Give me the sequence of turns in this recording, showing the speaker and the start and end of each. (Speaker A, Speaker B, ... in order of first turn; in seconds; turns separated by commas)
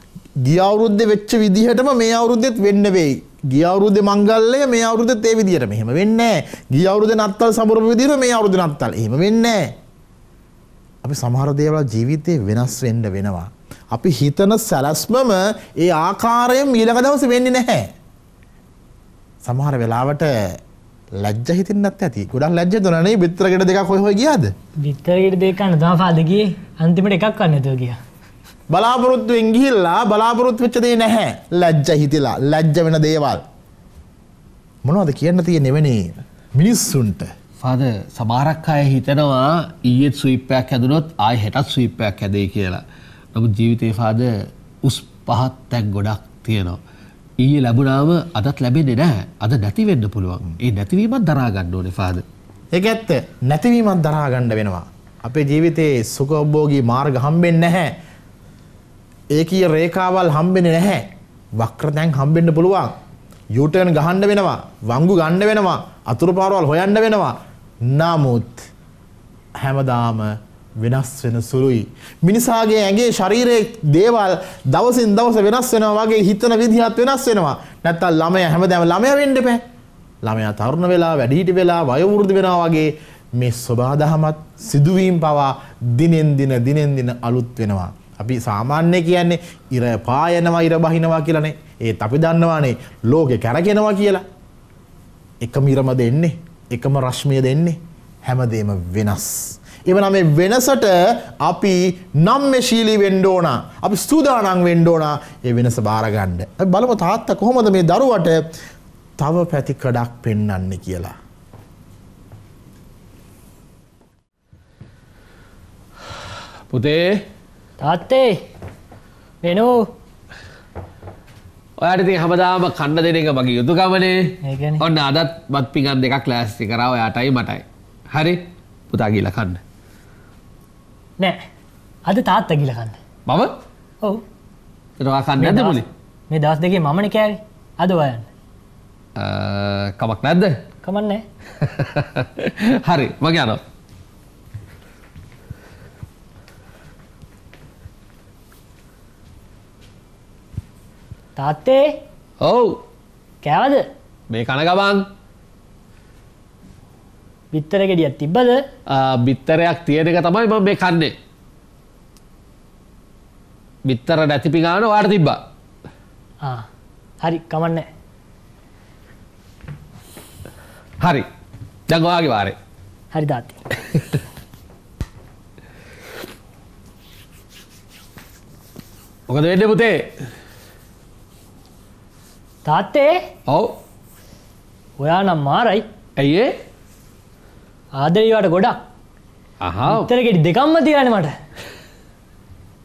Speaker A: 0.4-9.7, Speaker A: 11.0-17.9, Speaker A: 19.4-20.6, Speaker A: 21.2-24.5, Speaker B: 24.8-28.0, Speaker A: 28.7-33.4, Speaker A: 34.8-37.3, Speaker C: 37.6-42.8, Speaker C: 43.3-44.3, Speaker C: 44.8-46.8, Speaker C: 47.4-52.2, Speaker A: 52.7-57.9, Speaker A: 59.3-61.0, Speaker A: 61.6-62.9, Speaker A: 63.5-68.6, Speaker A: 69.6-79.6, Speaker A: 80.2-94.2, Speaker A: 95.4-108.4, Speaker A: 109.2-111.1, Speaker C: 116.7-117.1, Speaker B: 117.8-118.4, Speaker B: 119.4-119.9, Speaker C: 121.8-129.6, Speaker B: 124.4-124.8, Speaker B: 132.0-133.0, Speaker C: 133.3-133.5, Speaker C: 135.0-135.9, Speaker B: 135.4-138.3, Speaker C: 139.2-140.6, Speaker B: 140.8-141.2, Speaker C: 141.6-143.6, Speaker B: 151.3-151.9, Speaker C: 152.4-152.8, Speaker B: 153.4-153.8, Speaker C: 154.3-155.0, Speaker B: 157.5-158.6, Speaker C: 158.9-161.1, Speaker C: 163.8-165.4, Speaker B: 166.4-166.7, Speaker B: 167.2-167.9, Speaker C: 171.0-171.3, Speaker C: 171.9-172.6, Speaker B: 173.1-173.6, Speaker C: 179.3-180.1, Speaker B: 182.6-183.2, Speaker C: 183.5-183.7, Speaker B: 185.0-185.8, Speaker C: 186.2-186.5, Speaker B: 187.9-188.8, Speaker C: 189.6-190.1, Speaker B: 189.9-191.3